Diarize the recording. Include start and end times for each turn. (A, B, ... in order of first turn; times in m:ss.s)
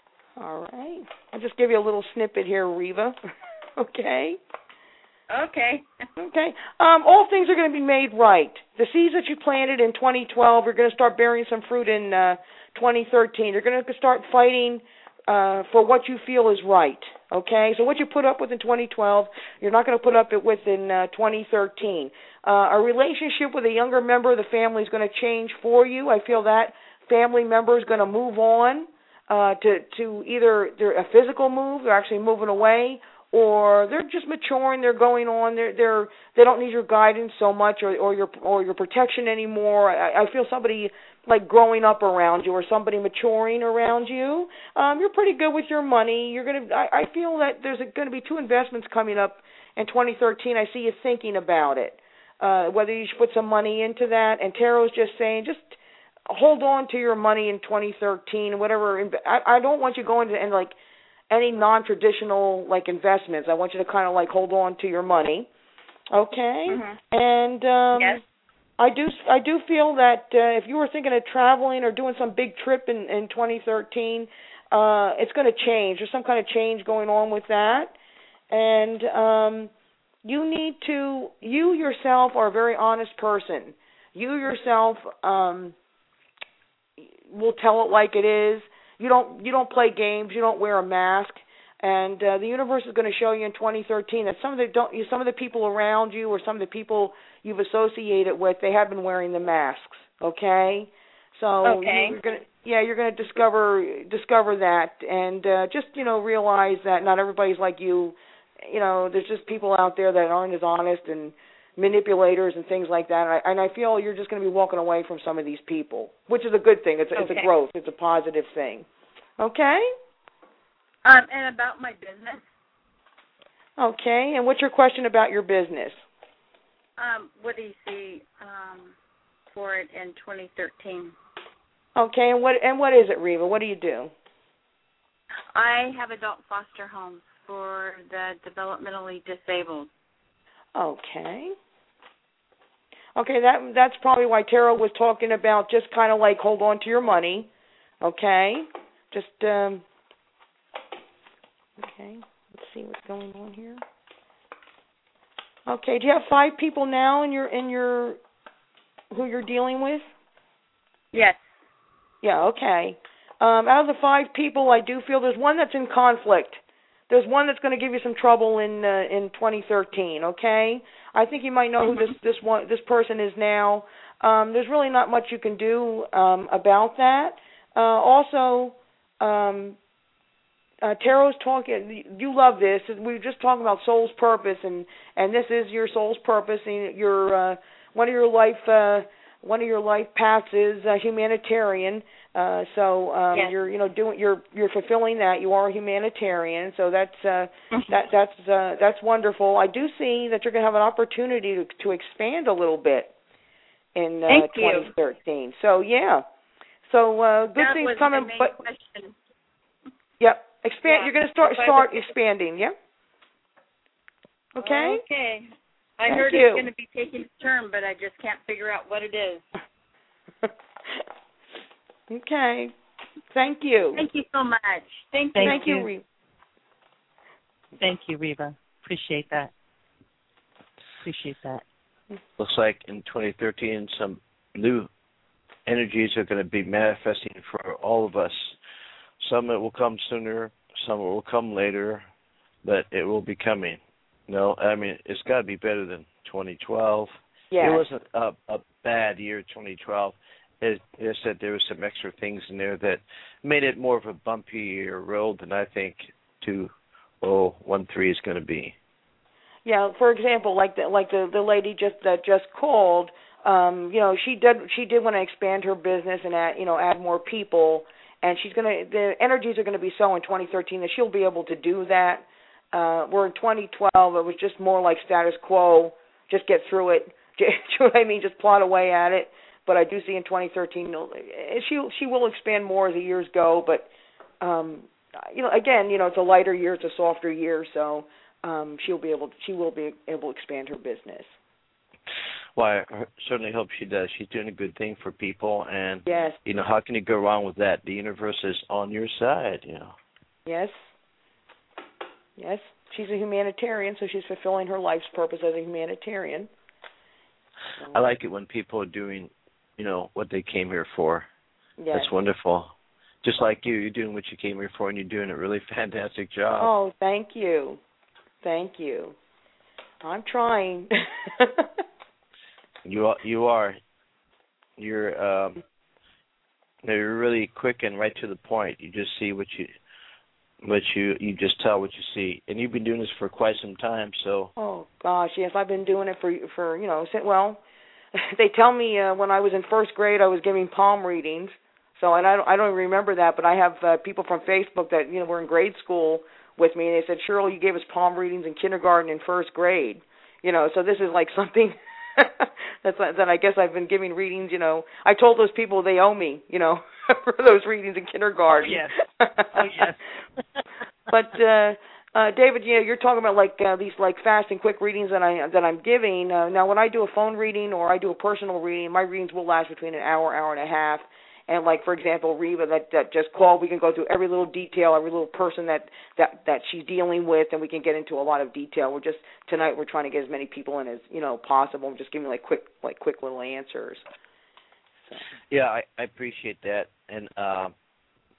0:00.4-0:03.2 A
0:03.8-0:04.4 A
0:05.3-0:05.8 B
0:06.2-0:55.8 A
0:56.3-1:00.8 A
1:01.3-1:05.5 A
1:06.1-1:08.2 A
1:06.7-1:07.0 B
1:08.0-1:08.2 B
1:08.8-1:17.9 A
1:18.5-1:19.7 A
1:20.2-1:25.7 A
1:27.0-1:58.8 A
1:41.6-1:42.2 B
1:57.1-1:57.5 B
1:59.4-1:59.9 A
2:01.0-2:02.4 B
2:03.8-2:06.0 A
2:07.0-2:08.9 B
2:09.5-2:11.1 B
2:12.0-2:14.1 A
2:15.5-2:19.9 B
2:20.7-2:21.5 A
2:23.2-2:27.5 A
2:28.0-2:29.8 A
2:31.8-2:33.8 A
2:35.7-2:38.2 A
2:39.1-2:40.0 A
2:41.1-2:41.4 B
2:42.2-2:59.8 A
3:00.8-3:23.1 A
3:17.7-3:18.0 B
3:23.9-3:26.2 A
3:24.3-3:24.9 B
3:26.9-3:28.6 A
3:27.6-3:29.1 B
3:30.2-3:32.7 A
3:30.8-3:32.1 B
3:34.6-3:35.0 A
3:34.6-3:35.5 B
3:36.0-3:39.4 B
3:36.1-3:36.7 A
3:42.1-3:42.7 A
3:43.3-3:44.0 A
3:43.9-3:45.8 B
3:45.3-3:45.8 C
3:45.4-3:46.0 A
3:47.8-3:49.5 C
3:51.0-3:51.6 C
3:52.4-3:54.9 D
3:55.6-3:58.6 D
3:59.2-4:02.0 D
4:02.6-4:18.7 D
4:07.5-4:07.8 A
4:19.6-4:43.9 A
4:44.4-4:51.3 A
4:52.6-4:59.9 D
4:56.1-4:56.4 A
5:00.4-5:00.7 A
5:02.4-5:06.5 A
5:07.9-5:11.2 D
5:11.8-5:12.1 A
5:11.9-5:16.7 D
5:16.6-5:17.8 A
5:18.4-5:19.2 A
5:20.0-5:21.7 A
5:22.8-5:23.8 D
5:24.8-5:25.6 D
5:26.8-5:29.7 D
5:30.6-5:34.5 D
5:34.6-5:37.6 A
5:38.1-5:59.6 A
5:58.6-5:59.0 C
5:59.5-6:00.0 C
6:01.1-6:24.0 A
6:25.5-6:27.7 D